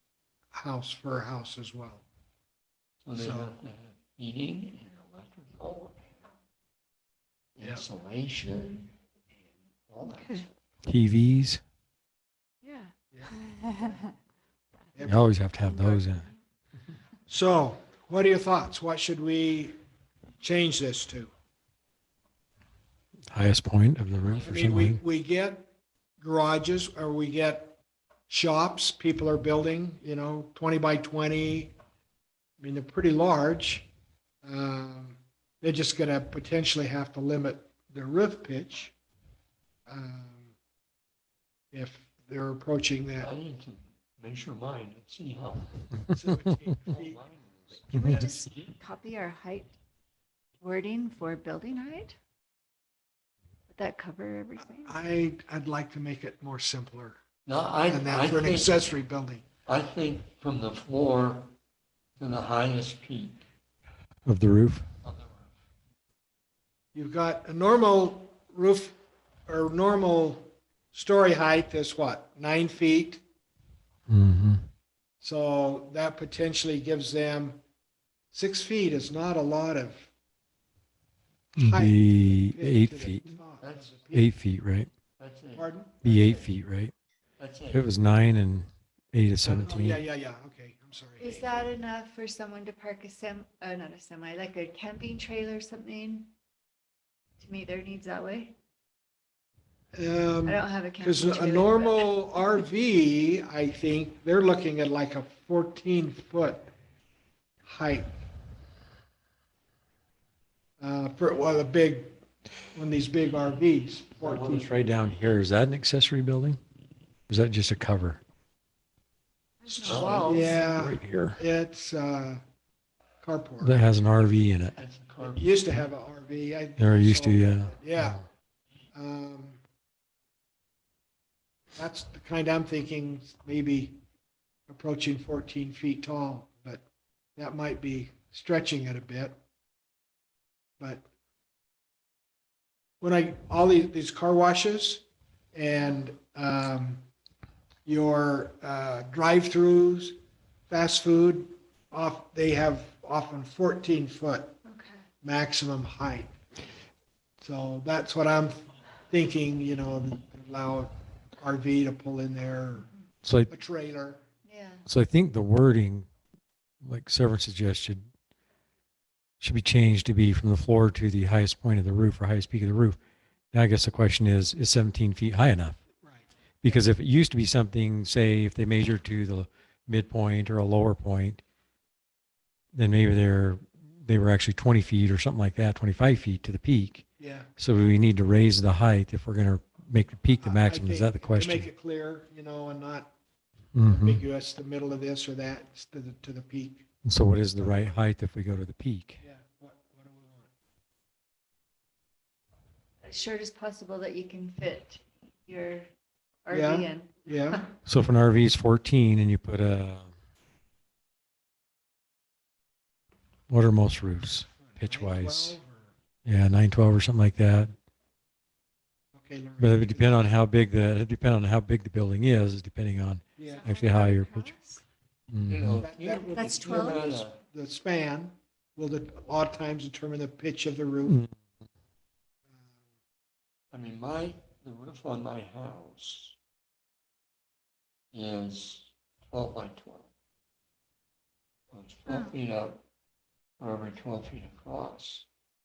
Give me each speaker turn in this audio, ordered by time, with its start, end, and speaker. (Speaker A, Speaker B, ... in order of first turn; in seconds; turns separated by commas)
Speaker A: 0.5-2.0, Speaker B: 3.0-6.2, Speaker A: 3.1-3.5, Speaker B: 7.6-8.9, Speaker B: 9.9-10.6, Speaker C: 10.2-10.4, Speaker D: 10.9-11.6, Speaker C: 12.6-14.1, Speaker A: 13.1-14.0, Speaker A: 15.0-16.0, Speaker D: 15.0-16.3, Speaker A: 17.3-19.8, Speaker A: 20.4-21.3, Speaker D: 23.3-25.0, Speaker A: 24.4-25.7, Speaker A: 26.2-27.8, Speaker A: 28.3-31.7, Speaker A: 32.6-33.9, Speaker A: 34.4-38.9, Speaker A: 39.9-40.5, Speaker A: 41.7-43.3, Speaker B: 43.2-45.9, Speaker A: 46.1-47.2, Speaker B: 46.8-47.9, Speaker A: 47.9-48.2, Speaker C: 47.9-49.7, Speaker D: 48.0-48.3, Speaker C: 50.6-52.2, Speaker C: 53.7-55.0, Speaker A: 54.6-57.2, Speaker B: 57.5-58.9, Speaker A: 57.9-59.5, Speaker B: 59.7-61.5, Speaker B: 62.2-63.4, Speaker D: 64.3-64.9, Speaker B: 65.0-65.5, Speaker A: 66.9-69.0, Speaker A: 69.5-73.2, Speaker D: 74.1-74.6, Speaker A: 75.2-77.6, Speaker A: 78.3-80.1, Speaker D: 81.6-83.4, Speaker A: 81.6-84.3, Speaker B: 83.6-84.0, Speaker D: 84.1-84.9, Speaker B: 85.2-86.5, Speaker A: 85.6-85.9, Speaker D: 86.0-86.9, Speaker B: 87.4-87.9, Speaker D: 87.7-90.0, Speaker A: 89.4-91.6, Speaker C: 91.2-96.3, Speaker C: 97.4-98.5, Speaker A: 99.9-106.7, Speaker C: 100.5-102.1, Speaker A: 107.6-108.1, Speaker A: 110.8-112.2, Speaker A: 112.7-114.7, Speaker B: 114.2-114.8, Speaker D: 114.5-116.6, Speaker D: 117.3-118.2, Speaker C: 119.6-120.7, Speaker B: 119.8-120.6, Speaker A: 119.9-122.4, Speaker D: 120.0-121.4, Speaker A: 123.2-123.8, Speaker D: 123.6-124.8, Speaker B: 124.8-125.8, Speaker A: 125.2-128.2, Speaker D: 126.8-128.2, Speaker A: 128.9-129.6, Speaker A: 131.8-134.0, Speaker A: 134.7-136.8, Speaker A: 137.4-139.4, Speaker A: 143.0-147.1, Speaker A: 147.9-150.2, Speaker A: 150.7-154.6, Speaker C: 154.7-155.0, Speaker A: 155.2-156.3, Speaker A: 157.4-162.9, Speaker D: 163.2-163.5, Speaker A: 163.5-164.2, Speaker C: 164.4-164.8, Speaker D: 164.9-166.1, Speaker D: 166.8-168.1, Speaker D: 169.4-173.0, Speaker D: 173.5-175.8, Speaker D: 176.6-181.4, Speaker D: 182.7-187.0, Speaker A: 187.2-187.5, Speaker D: 187.6-191.7, Speaker A: 190.4-193.1, Speaker D: 193.7-194.2, Speaker A: 193.9-196.9, Speaker D: 197.0-199.2, Speaker A: 197.6-198.0, Speaker A: 199.2-200.5, Speaker C: 203.0-205.9, Speaker C: 206.4-207.7, Speaker A: 206.5-207.6, Speaker D: 207.8-210.1, Speaker D: 213.5-215.6, Speaker A: 214.6-215.9, Speaker D: 216.2-217.7, Speaker A: 219.1-220.3, Speaker D: 219.6-224.5, Speaker A: 223.4-223.7, Speaker C: 223.4-224.8, Speaker D: 225.3-225.8, Speaker B: 225.5-227.4, Speaker A: 225.8-231.2, Speaker C: 226.3-227.1, Speaker D: 231.1-231.3, Speaker B: 233.7-236.4, Speaker B: 238.1-240.1, Speaker B: 241.7-242.8, Speaker B: 243.6-245.3